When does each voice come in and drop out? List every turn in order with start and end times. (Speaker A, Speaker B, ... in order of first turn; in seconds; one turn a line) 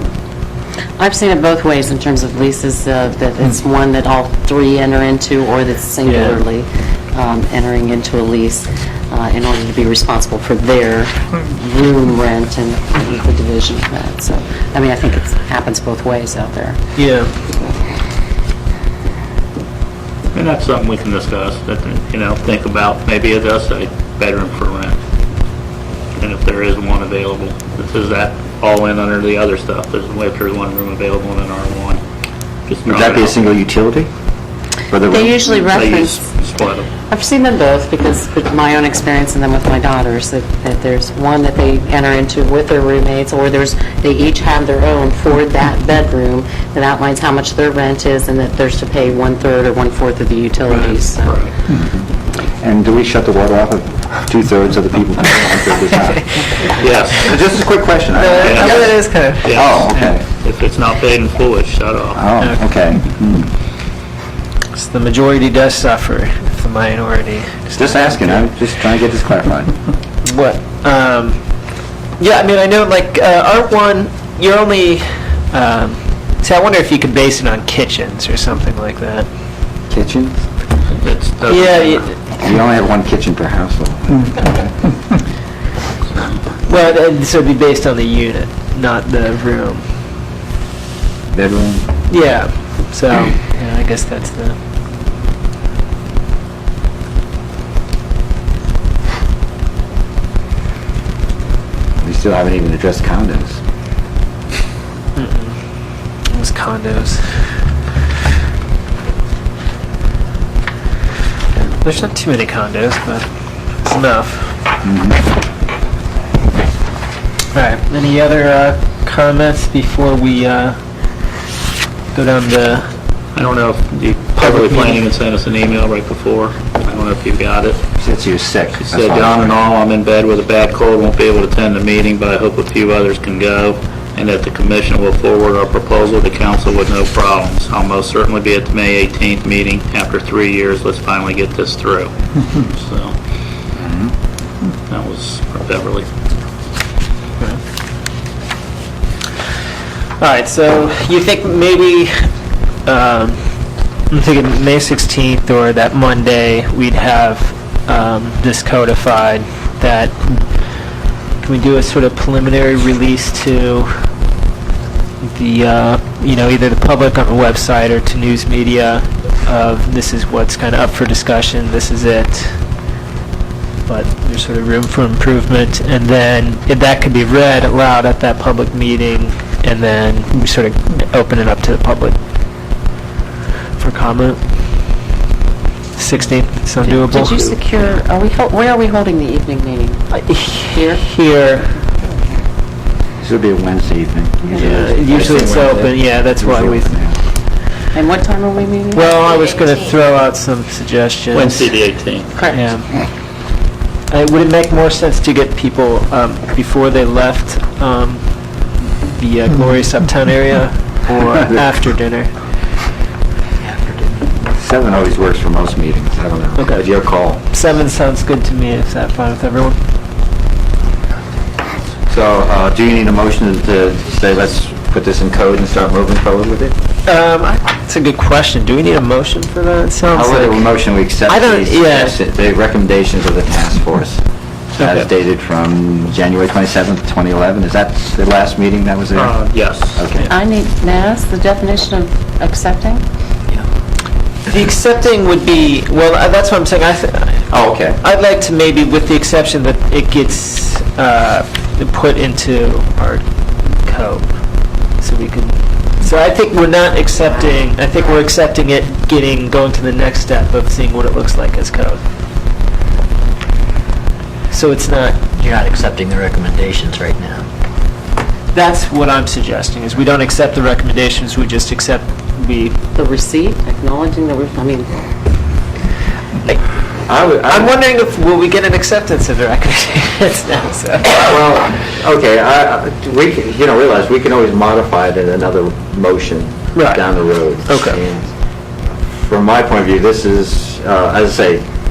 Speaker A: 1.0-16.8
Speaker B: 6.0-6.4
Speaker B: 17.0-17.3
Speaker C: 20.3-25.0
Speaker C: 26.2-32.0
Speaker C: 32.7-33.5
Speaker D: 32.9-34.1
Speaker D: 34.9-35.4
Speaker A: 35.1-36.2
Speaker C: 35.5-36.9
Speaker A: 37.1-51.5
Speaker B: 50.7-51.0
Speaker C: 51.2-51.5
Speaker D: 51.7-52.1
Speaker D: 52.6-60.2
Speaker C: 56.8-57.3
Speaker B: 58.1-59.7
Speaker C: 58.4-62.2
Speaker D: 62.1-63.5
Speaker B: 64.7-68.5
Speaker D: 67.8-69.8
Speaker B: 70.2-71.5
Speaker B: 72.2-79.3
Speaker D: 79.9-80.5
Speaker C: 80.9-82.1
Speaker B: 81.5-82.2
Speaker D: 82.4-84.8
Speaker C: 86.1-86.5
Speaker B: 86.7-89.9
Speaker D: 91.3-92.0
Speaker B: 92.1-94.6
Speaker D: 102.0-103.6
Speaker B: 105.2-105.6
Speaker B: 106.2-107.3
Speaker B: 111.6-114.5
Speaker D: 114.8-115.2
Speaker B: 117.5-120.8
Speaker B: 122.1-122.9
Speaker C: 123.3-127.8
Speaker B: 124.4-125.0
Speaker D: 128.0-129.6
Speaker C: 128.8-143.2
Speaker D: 143.8-144.1
Speaker C: 144.9-146.1
Speaker B: 150.2-152.3
Speaker B: 152.8-160.5
Speaker B: 161.4-164.1
Speaker B: 165.2-172.6
Speaker B: 173.9-182.2
Speaker B: 183.8-184.4
Speaker B: 186.0-187.6
Speaker A: 187.0-190.0
Speaker B: 190.1-191.8
Speaker A: 190.7-191.0
Speaker D: 193.2-197.2
Speaker B: 194.5-197.0
Speaker A: 197.9-199.1
Speaker B: 198.9-201.7
Speaker C: 201.3-202.4
Speaker A: 202.4-202.7
Speaker B: 202.5-203.0
Speaker B: 204.1-212.5
Speaker E: 213.6-214.3
Speaker D: 214.5-217.4
Speaker B: 216.6-216.8
Speaker B: 217.4-219.8
Speaker D: 222.1-226.7
Speaker B: 227.1-230.7
Speaker D: 230.1-234.2
Speaker B: 231.3-232.2
Speaker D: 234.8-240.3
Speaker C: 239.2-240.1
Speaker A: 240.3-243.0
Speaker B: 244.5-262.0
Speaker D: 247.5-248.0
Speaker B: 264.5-265.3
Speaker E: 265.4-267.5
Speaker B: 268.5-272.8
Speaker A: 272.9-274.9
Speaker D: 277.1-277.7
Speaker B: 277.5-281.3
Speaker D: 281.1-288.4
Speaker B: 286.8-287.1
Speaker B: 287.6-288.0
Speaker D: 289.1-291.6